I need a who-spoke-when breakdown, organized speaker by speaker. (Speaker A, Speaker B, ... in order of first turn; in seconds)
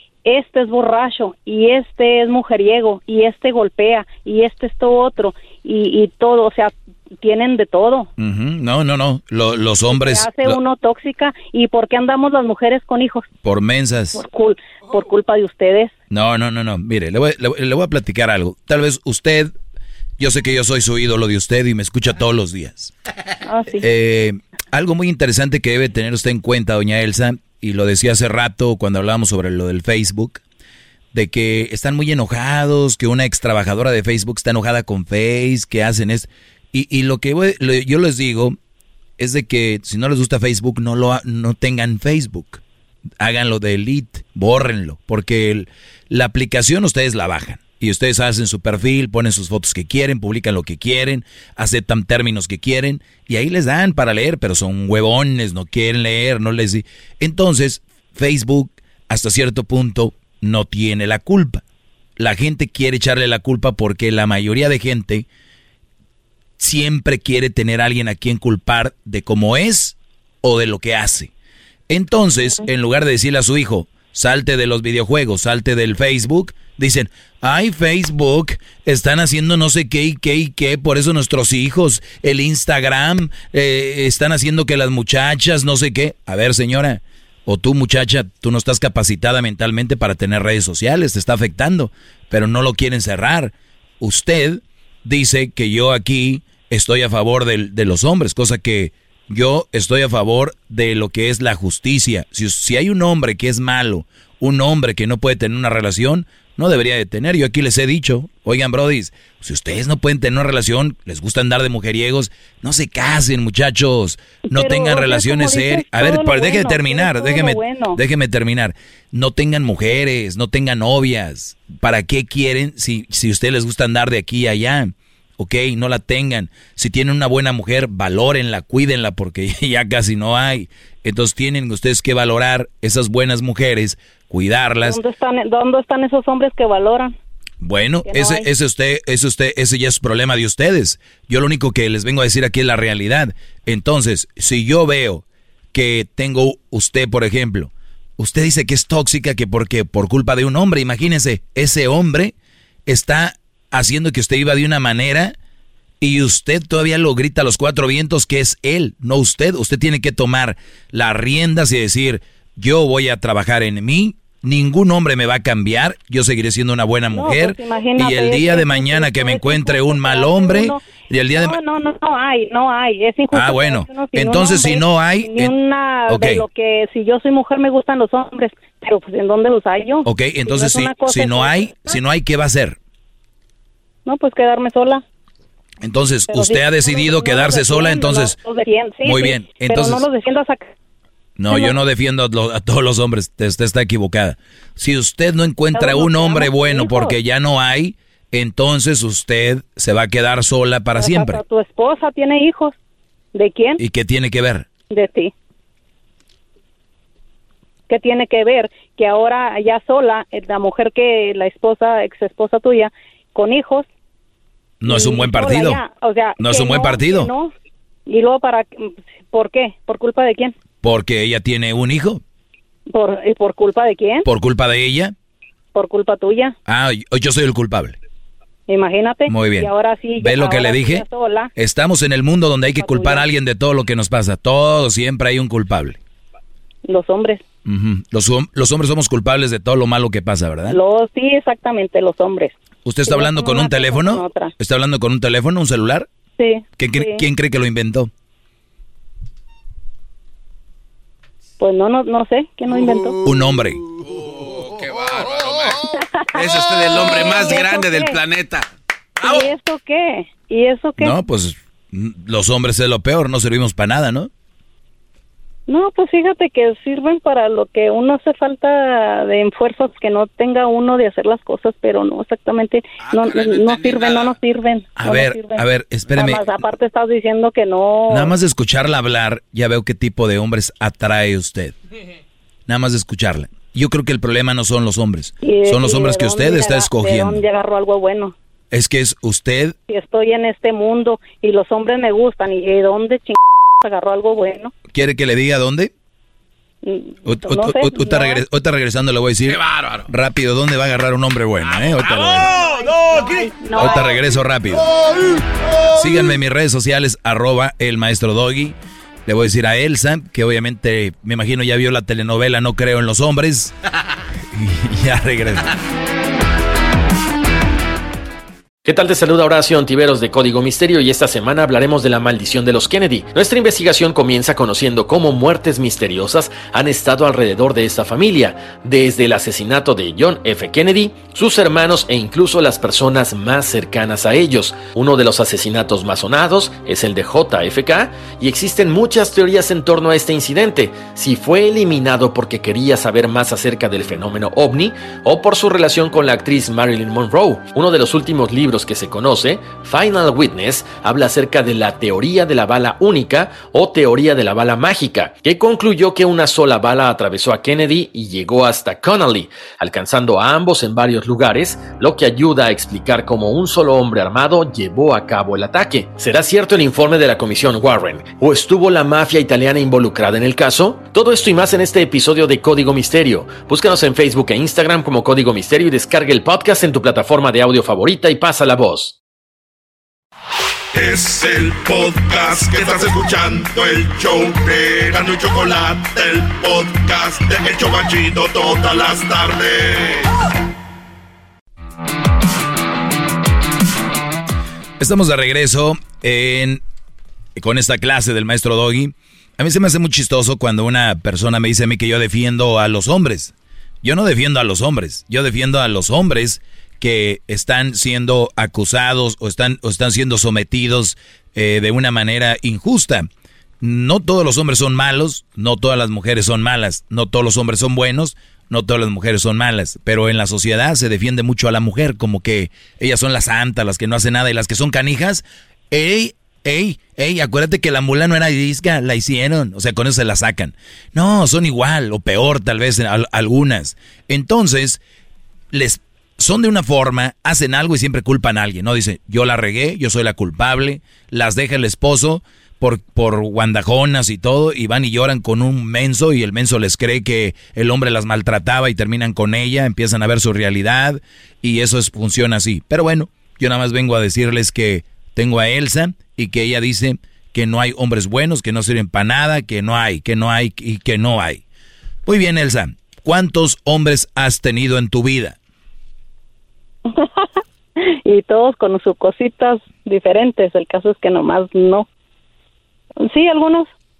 Speaker A: 0.2-8.1, 9.9-13.2, 14.1-15.9, 23.4-23.8, 114.5-118.0, 134.8-137.1, 138.1-138.5, 167.1-170.8, 171.3-181.9, 184.1-185.0, 186.3-190.7, 195.7-197.1, 201.0-202.7, 203.3-203.8, 204.9-205.3, 207.9-213.8, 214.8-217.5, 218.1-220.5, 222.9-224.2, 225.7-226.5, 228.7-231.5, 232.8-233.2, 236.8-237.4, 240.7-242.5, 243.1-244.5, 246.4-247.2, 251.6-253.2, 256.0-258.2, 259.2-261.1, 265.7-278.3, 285.4-288.3, 289.9-294.7, 296.8-298.4, 302.4-304.2, 467.1-467.5, 468.2-472.1, 473.2-473.9
Speaker B: 8.2-10.6, 13.4-14.2, 16.1-19.5, 20.2-22.9, 23.8-30.4, 31.1-38.5, 39.2-42.6, 43.2-61.6, 62.2-65.2, 66.6-71.3, 71.9-135.0, 137.6-152.3, 152.9-155.3, 156.0-171.6, 173.3-175.5, 176.1-176.4, 180.0-182.8, 185.8-188.4, 189.0-190.0, 191.4-201.4, 203.8-204.7, 214.8-215.8, 216.4-217.3, 220.8-222.2, 224.2-225.1, 226.7-227.9, 229.3-236.0, 237.7-240.8, 242.8-246.1, 246.8-248.1, 253.2-253.8, 261.0-264.3, 275.0-276.6, 278.1-281.8, 282.7-287.4, 288.7-289.8, 294.9-295.9, 297.2-302.5, 303.7-304.9, 305.9-313.7, 314.5-315.7, 395.0-396.8, 397.6-413.3, 413.8-435.0, 435.7-461.6, 462.2-465.6
Speaker C: 252.7-253.3, 253.9-258.7, 259.2-259.5, 273.0-274.4, 299.5-300.1, 301.6-304.0, 304.9-306.2
Speaker D: 318.8-379.1
Speaker E: 380.9-390.3